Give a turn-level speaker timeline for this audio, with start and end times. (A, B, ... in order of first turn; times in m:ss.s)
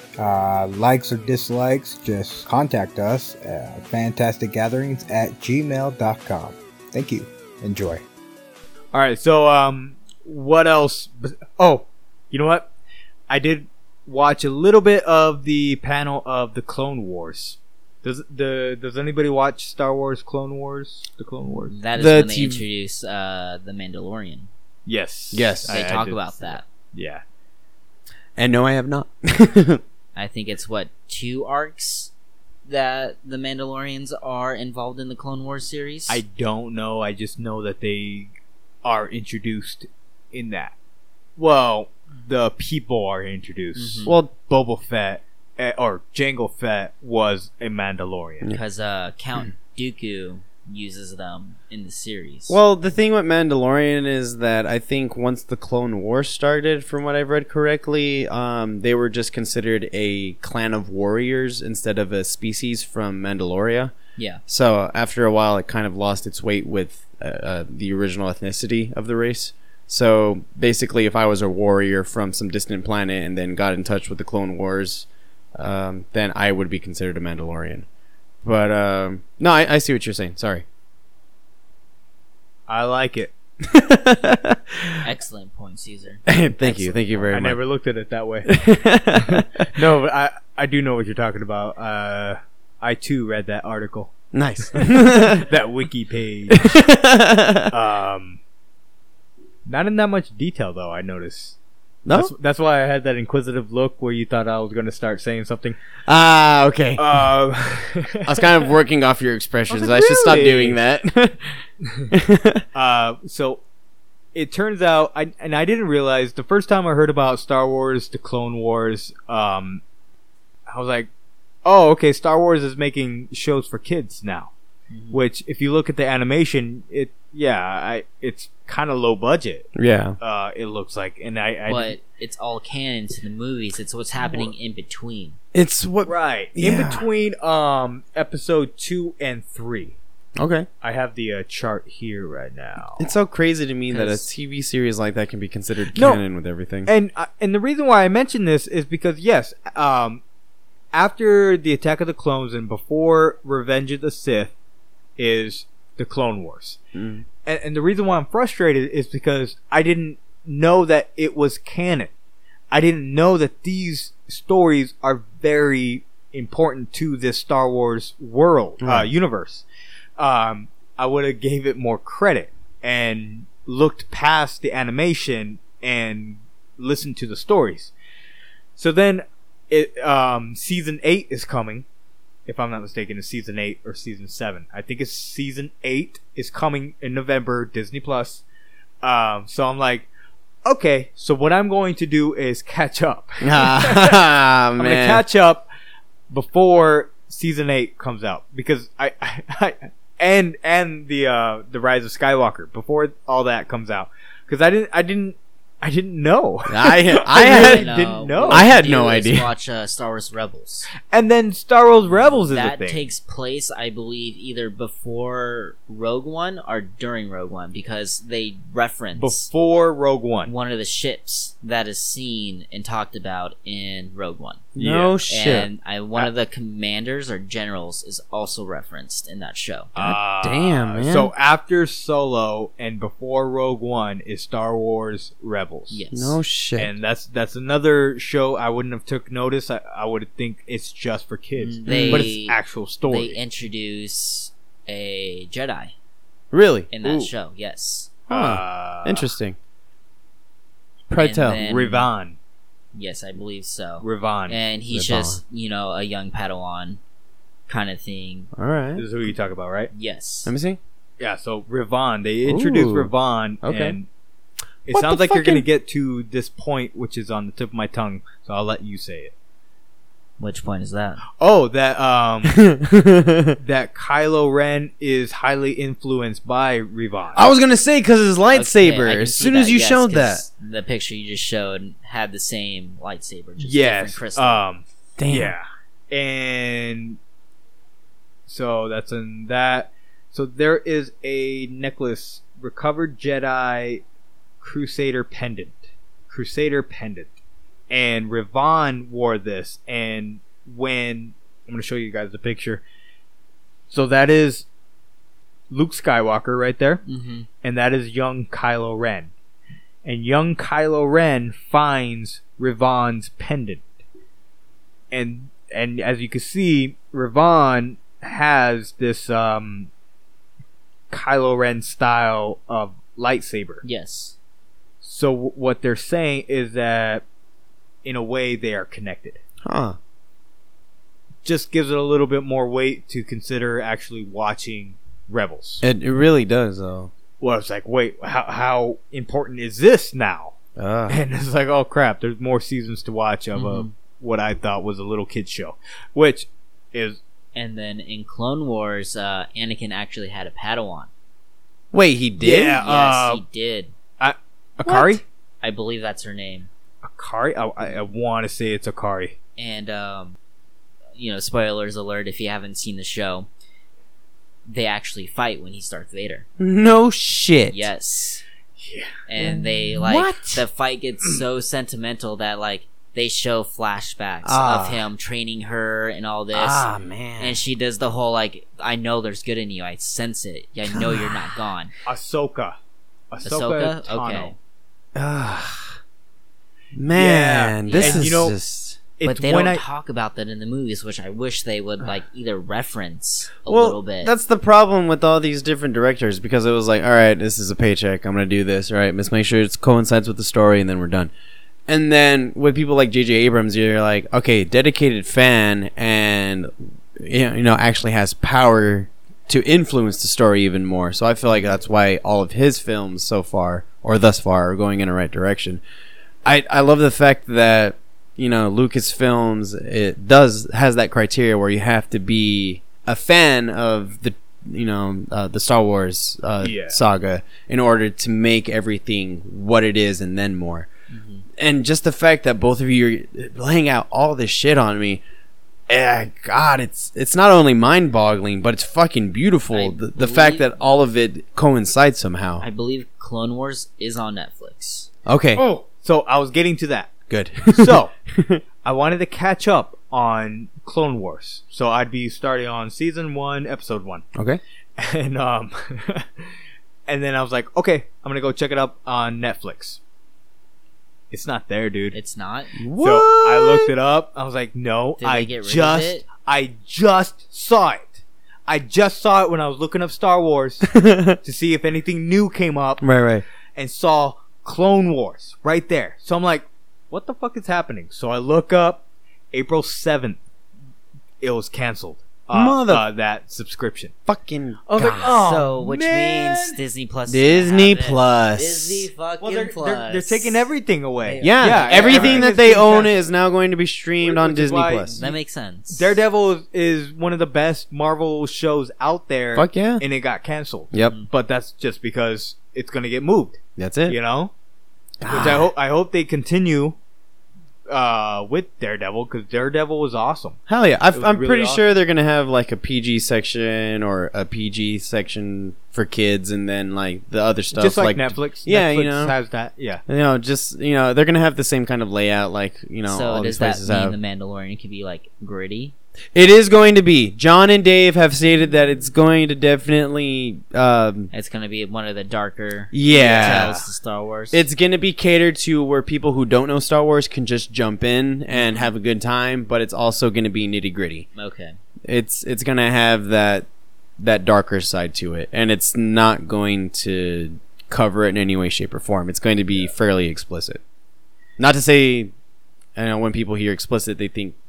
0:00.2-0:08.0 A
0:08.9-0:12.7 B
0:13.3-0:21.7 B
0:21.7-0:24.5 C
0:22.0-0:22.6 D
0:24.8-0:27.2 B
0:25.3-0:26.0 D
0:25.7-0:26.6 C
0:28.4-0:29.8 D
0:30.2-0:32.1 C
0:32.6-0:36.2 C
0:36.1-0:38.3 B
0:38.8-0:40.7 B
0:41.4-0:48.5 B
0:43.7-0:44.1 C
0:48.5-0:52.6 C
0:52.5-1:03.9 D
1:04.5-1:17.9 D
1:18.4-1:20.6 D
1:22.7-1:23.3 B
1:23.6-1:25.0 D
1:25.0-1:27.3 C
1:26.3-1:27.6 D
1:27.3-1:28.5 B
1:28.5-1:29.7 D
1:29.2-1:34.1 B
1:34.3-1:35.4 D
1:34.7-1:36.7 B
1:36.5-1:37.7 D
1:37.7-1:38.4 B
1:39.7-1:41.6 B
1:42.1-1:42.3 D
1:42.1-1:45.8 B
1:46.1-1:47.0 D
1:47.0-1:48.5 B
1:48.2-1:51.6 D
1:49.7-1:50.8 B
1:52.1-1:52.6 D
1:52.7-1:53.6 B
1:54.3-1:59.8 B
2:00.7-2:01.1 B
2:01.6-2:04.5 B
2:04.9-2:05.2 C
2:05.1-2:09.7 B
2:09.8-2:10.2 D
2:10.2-2:12.0 B
2:11.7-2:15.4 C
2:14.2-2:14.5 B
2:15.5-2:17.1 D
2:16.0-2:20.0 B
2:20.4-2:20.7 D
2:20.8-2:23.1 B
2:23.0-2:26.9 D
2:23.9-2:24.2 C
2:25.9-2:26.2 B
2:26.9-2:30.2 B
2:30.9-2:34.5 B
2:35.2-2:36.8 B
2:36.9-2:37.2 D
2:37.4-2:42.1 B
2:42.7-2:49.7 B
2:48.8-2:49.1 D
2:50.2-2:57.9 B
2:58.8-3:01.8 B
3:02.5-3:08.4 B
3:09.0-3:10.1 B
3:10.6-3:14.2 B
3:13.4-3:15.2 D
3:14.8-3:15.7 B
3:16.3-3:28.7 B
3:26.7-3:27.9 D
3:27.3-3:30.9 C
3:28.5-3:29.5 D
3:31.1-3:33.1 B
3:32.0-3:39.5 C
3:39.2-3:40.5 B
3:40.5-3:44.7 C
3:44.8-3:45.7 D
3:44.8-3:45.2 B
3:45.3-3:49.9 C
3:50.0-3:56.0 B
3:50.0-3:51.3 D
3:55.9-3:56.4 C
3:56.1-3:56.9 D
3:56.8-4:03.4 B
4:01.6-4:05.9 C
4:01.9-4:02.3 D
4:06.5-4:06.9 D
4:06.9-4:08.1 C
4:07.0-4:07.3 B
4:08.3-4:09.3 B
4:08.3-4:09.6 D
4:11.1-4:11.6 D
4:11.2-4:12.1 C
4:11.6-4:12.4 B
4:12.9-4:17.0 C
4:14.0-4:14.6 B
4:14.9-4:15.4 D
4:17.7-4:18.5 C
4:18.6-4:19.0 D
4:19.0-4:19.9 B
4:19.9-4:20.5 C
4:20.4-4:20.8 D
4:21.2-4:24.1 B
4:22.4-4:23.1 D
4:23.6-4:24.0 D
4:24.9-4:29.3 B
4:24.9-4:25.6 D
4:30.4-4:31.2 C
4:31.4-4:32.6 B
4:32.5-4:33.6 D
4:33.6-4:37.5 B
4:37.4-4:40.4 D
4:38.5-4:44.6 C
4:43.6-4:47.2 B
4:45.2-4:45.5 D
4:48.5-4:54.0 B
4:54.6-4:57.4 B
4:57.9-5:02.8 B
5:03.9-5:04.7 B
5:05.7-5:07.0 B
5:07.1-5:07.5 C
5:07.6-5:09.3 B
5:10.0-5:13.8 B
5:15.1-5:19.9 B
5:21.1-5:23.8 B
5:23.8-5:24.4 C
5:25.0-5:27.2 B
5:28.0-5:29.4 B
5:29.6-5:30.0 D
5:31.4-5:35.8 B
5:35.8-5:37.1 D
5:37.4-5:40.6 B
5:40.8-5:41.2 D
5:41.1-5:47.2 B
5:43.6-5:43.9 C
5:47.6-5:51.1 C
5:51.9-5:52.8 D
5:52.4-5:53.4 B
5:52.8-5:53.9 C
5:54.2-5:55.2 B
5:54.9-5:56.7 C
5:57.0-5:59.4 B
5:59.6-6:00.4 C
6:01.1-6:03.5 C
6:04.7-6:06.4 C
6:06.6-6:07.9 D
6:07.7-6:08.4 C
6:08.8-6:09.1 B
6:09.3-6:16.9 C
6:09.4-6:10.6 D
6:14.4-6:15.1 D
6:16.5-6:17.6 D
6:17.4-6:21.9 C
6:20.9-6:21.6 D
6:22.0-6:22.8 B
6:23.3-6:24.6 B
6:23.4-6:24.5 C
6:25.2-6:26.0 D
6:26.9-6:29.0 D
6:27.1-6:28.6 B
6:27.9-6:28.3 C
6:29.2-6:29.8 B
6:29.2-6:34.3 C
6:33.7-6:41.3 D
6:41.9-6:55.8 D
6:56.4-7:10.9 D
7:06.6-7:07.0 B
7:11.1-7:11.4 C
7:11.6-7:15.2 D
7:15.9-7:22.6 D
7:19.7-7:21.0 C
7:22.6-7:25.1 C
7:25.2-7:25.6 D
7:25.6-7:27.2 B
7:27.3-7:28.6 D
7:27.7-7:28.1 B
7:28.8-7:34.2 B
7:34.4-7:34.6 D
7:35.0-7:36.5 B
7:37.1-7:40.0 B
7:41.3-7:42.2 B
7:42.1-7:42.7 C
7:42.8-7:43.9 D
7:43.0-7:50.9 B
7:45.2-7:46.2 C
7:50.9-7:51.4 D
7:51.4-7:53.0 B
7:53.0-7:53.4 D
7:53.8-8:00.4 B
8:01.4-8:04.1 B
8:02.5-8:03.0 D
8:04.3-8:05.3 D
8:04.9-8:06.8 B
8:05.0-8:10.6 C
8:07.3-8:09.1 D
8:09.4-8:13.2 B
8:11.2-8:12.5 C
8:11.4-8:15.2 D
8:14.2-8:15.4 B
8:15.2-8:16.2 C
8:15.9-8:24.5 B
8:19.6-8:20.0 D
8:23.8-8:24.2 D
8:25.2-8:25.7 D
8:25.3-8:27.0 B
8:27.9-8:30.6 B
8:30.7-8:39.3 D
8:31.1-8:31.8 B
8:37.8-8:40.0 B
8:40.1-8:44.2 D
8:43.0-8:45.9 C
8:46.3-8:51.3 D
8:51.3-8:54.6 C
8:52.9-8:53.7 D
8:53.1-8:53.9 B
8:54.5-9:01.3 D
8:58.5-8:58.9 C
9:01.4-9:01.8 C
9:02.1-9:03.6 D
9:04.2-9:10.8 D
9:11.6-9:12.3 D
9:13.0-9:14.5 D